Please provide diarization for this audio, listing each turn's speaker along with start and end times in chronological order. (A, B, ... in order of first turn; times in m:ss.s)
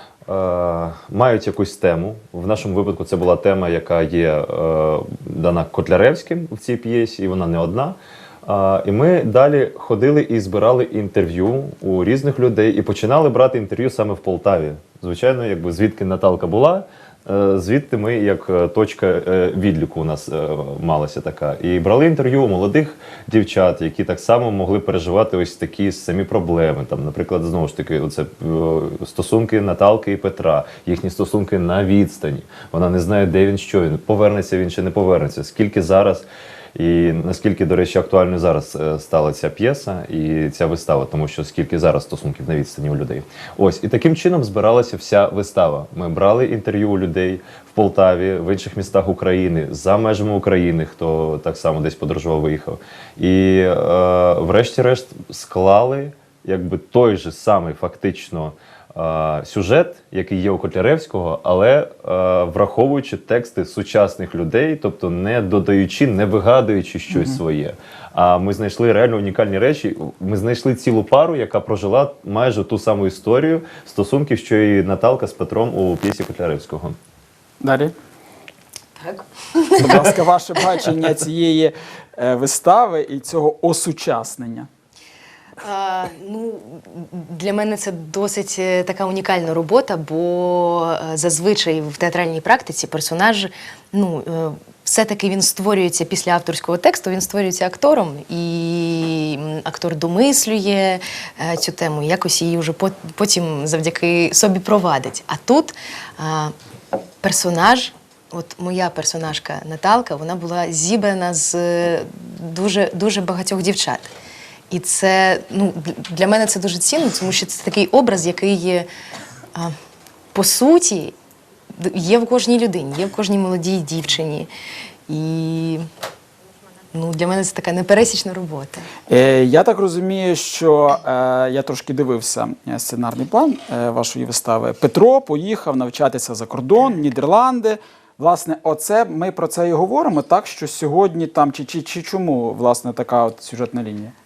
0:00.3-1:17.0 A
1:17.6-1:17.9 B
1:19.0-1:20.1 C
1:19.8-1:24.7 B
1:25.6-1:46.5 C
1:47.2-1:54.1 C
1:54.7-1:58.9 C
2:00.3-2:01.2 C
2:01.8-2:04.5 C
2:05.1-2:05.8 C
2:06.9-2:08.9 C
2:09.1-2:24.1 B